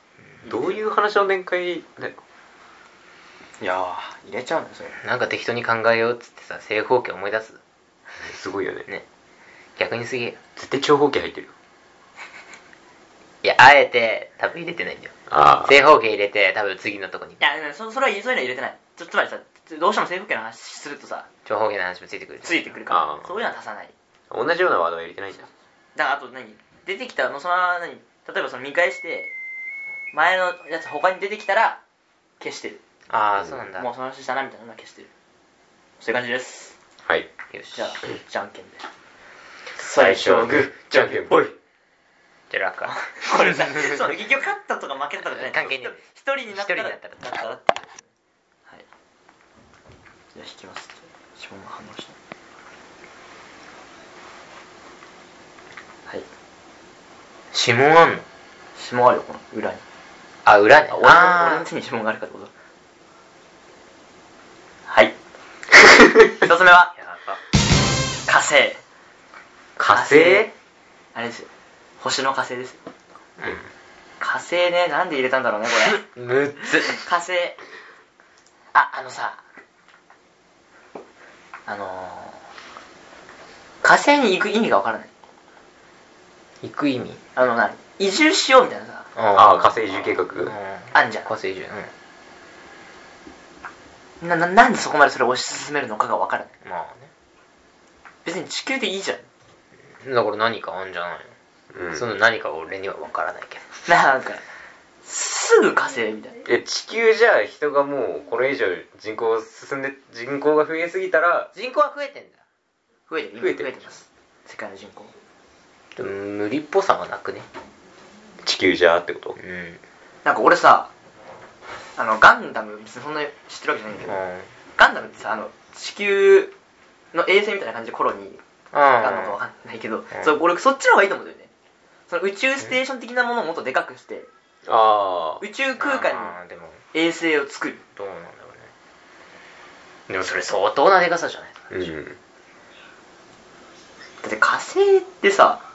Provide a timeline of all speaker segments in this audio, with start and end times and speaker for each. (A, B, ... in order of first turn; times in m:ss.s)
0:00.4-0:00.8 A
0:00.5-0:02.2 B
0:03.6-0:05.0 A
0:05.0-0:07.6 C
0:08.2-0:08.9 B
0:09.8-0:10.4 C
0:10.6-0:11.5 B
0:13.4-0:15.1 C
0:15.3-0:15.8 B
0:15.6-0:17.4 C
0:17.4-0:21.3 A
0:21.4-0:22.8 C
0:22.4-0:23.9 A
0:22.9-0:23.3 B
0:24.3-0:25.5 B
0:26.0-0:29.3 A
0:30.1-0:31.8 A
0:32.4-0:32.8 A
0:33.1-0:33.9 C
0:33.8-0:35.1 A
0:36.0-0:36.8 A
0:37.0-0:37.3 B
0:37.5-0:38.0 C
0:37.7-0:38.8 A
0:39.8-0:41.4 A
0:40.0-0:41.6 B
0:42.5-0:44.0 C
0:42.9-0:48.1 A
0:45.2-0:47.2 C
0:50.3-0:52.2 A
0:57.5-0:58.2 C
0:58.8-0:59.8 A
1:00.4-1:01.7 C
1:00.9-1:02.5 A
1:04.9-1:05.1 A
1:06.2-1:06.9 A
1:06.9-1:07.4 C
1:08.3-1:08.8 A
1:09.8-1:10.5 B
1:09.9-1:10.5 A
1:11.1-1:11.5 A
1:12.0-1:12.8 A
1:13.4-1:13.7 C
1:14.2-1:16.0 A
1:15.8-1:17.0 C
1:16.7-1:17.6 A
1:18.7-1:19.4 C
1:21.7-1:22.4 A
1:23.8-1:25.1 A
1:26.6-1:27.2 C
1:27.4-1:29.1 A
1:29.2-1:31.9 C
1:29.3-1:30.5 B
1:30.9-1:31.3 A
1:34.2-1:36.5 A
1:36.6-1:37.1 C
1:38.2-1:39.3 A
1:40.0-1:41.3 C
1:41.7-1:42.0 B
1:41.9-1:43.7 C
1:43.9-1:44.4 A
1:45.0-1:46.4 A
1:46.4-1:51.5 B
1:51.5-1:52.4 C
1:53.1-1:55.1 A
1:53.4-1:53.8 B
1:56.0-1:57.5 C
1:58.4-1:59.4 B
1:59.4-1:59.8 C
2:00.2-2:00.9 A
2:02.0-2:04.2 A
2:04.1-2:04.5 C
2:04.8-2:06.5 A
2:07.1-2:08.4 A
2:08.7-2:09.4 C
2:09.0-2:11.5 A
2:12.1-2:14.3 A
2:14.6-2:15.4 B
2:15.4-2:16.4 A
2:15.8-2:16.8 C
2:16.9-2:17.8 A
2:17.9-2:18.7 C
2:20.1-2:21.9 C
2:21.7-2:22.2 B
2:24.2-2:25.6 A